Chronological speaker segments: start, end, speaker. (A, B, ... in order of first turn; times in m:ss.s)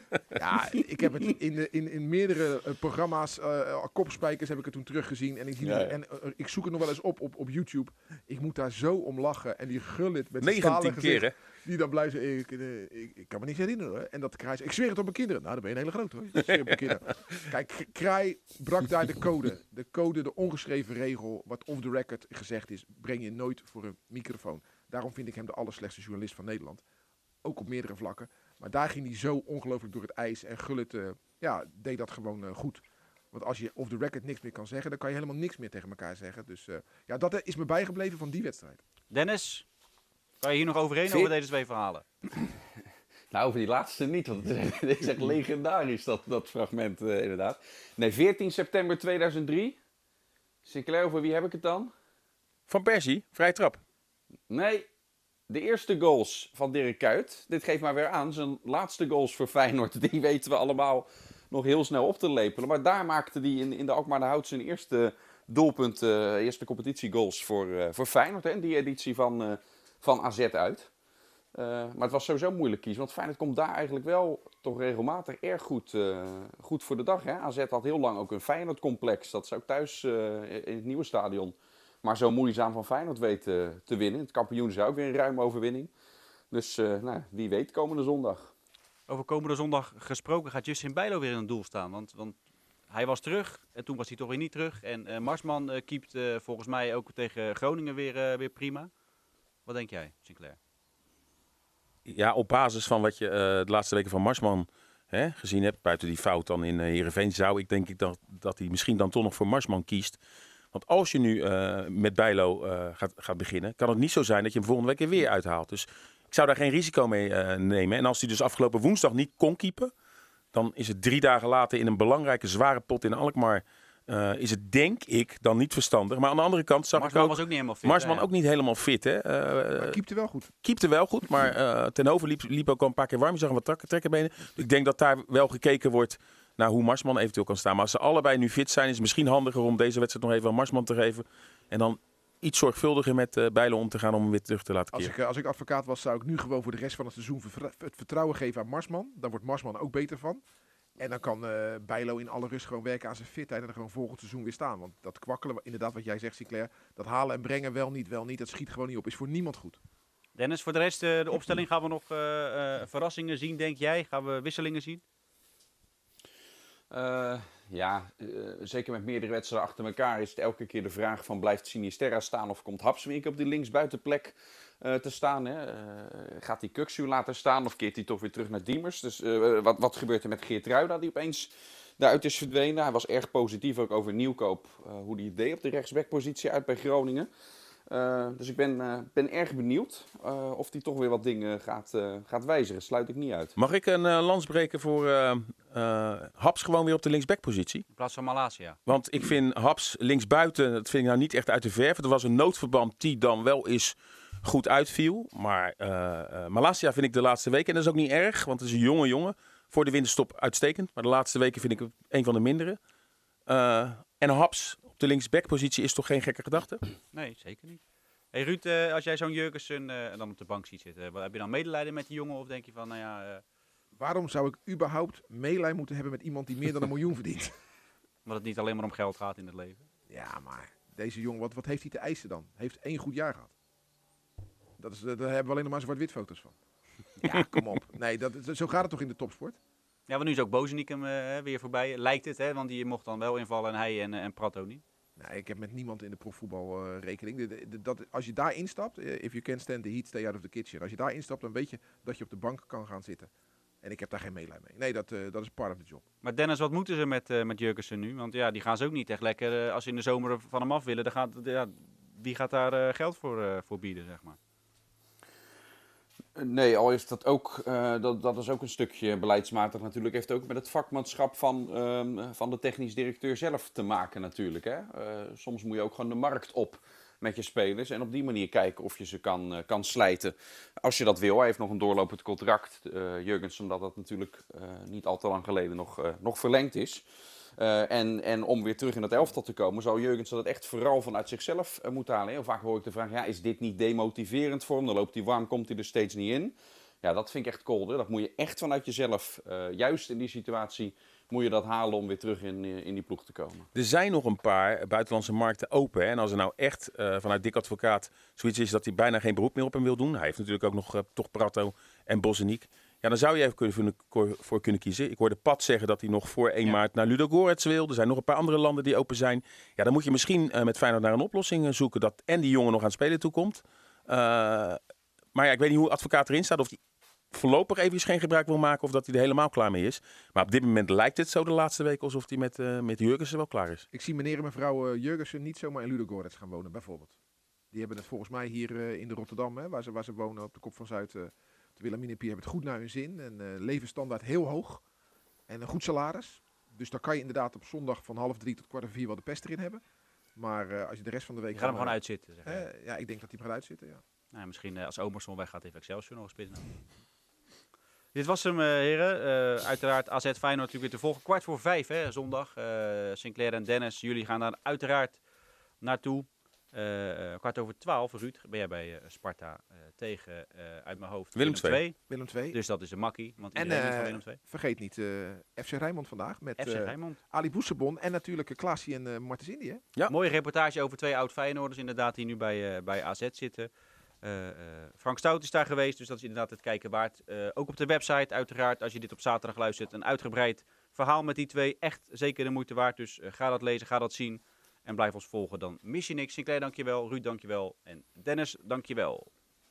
0:00.3-0:26.8 A
0:05.6-0:06.0 B
0:10.4-0:11.3 C
0:27.4-0:38.8 A
0:39.1-0:39.6 D
0:40.4-0:42.0 D
0:43.3-0:49.8 B
0:50.6-0:51.9 B
0:52.7-0:53.8 C
0:54.5-0:54.8 B
0:55.5-1:10.9 B
1:11.5-1:25.9 B
1:26.5-1:28.5 B
1:29.1-1:32.4 D
1:32.9-1:38.9 D
1:39.6-1:40.6 D
1:42.1-1:50.2 C
1:50.7-1:59.9 C
2:00.5-2:10.0 C
2:06.9-2:08.3 D
2:09.7-2:10.5 A
2:10.6-2:25.1 C
2:24.9-2:30.4 A
2:31.0-2:39.8 A
2:40.4-2:45.0 D
2:46.9-3:07.3 B
3:07.9-3:13.5 B
3:13.6-3:17.8 C
3:17.9-3:18.8 D
3:18.8-3:32.8 C
3:33.5-3:36.8 C
3:37.1-3:37.8 D
3:38.3-3:43.4 D
3:44.0-3:47.5 A
3:48.2-3:49.9 D
3:50.1-3:53.5 A
3:54.8-3:56.6 A
3:57.2-3:59.6 A
4:00.1-4:04.8 D
4:05.2-4:13.3 A
4:13.8-4:16.0 A
4:16.2-4:24.4 D
4:26.4-4:47.0 B
4:47.6-5:03.7 B
5:03.7-5:24.8 C
5:25.3-5:26.8 C
5:27.3-5:33.8 C
5:33.9-5:37.2 A
5:37.7-5:44.8 A
5:45.5-5:49.8 A
5:50.4-5:54.0 A
5:51.5-5:52.7 D
5:54.3-5:56.7 D
5:58.1-6:05.2 D
6:05.8-6:12.0 D
6:11.3-6:11.8 C
6:12.1-6:12.6 A
6:12.5-6:14.4 D
6:13.5-6:19.8 A
6:16.6-6:17.2 D
6:20.1-6:23.7 D
6:24.2-6:39.3 D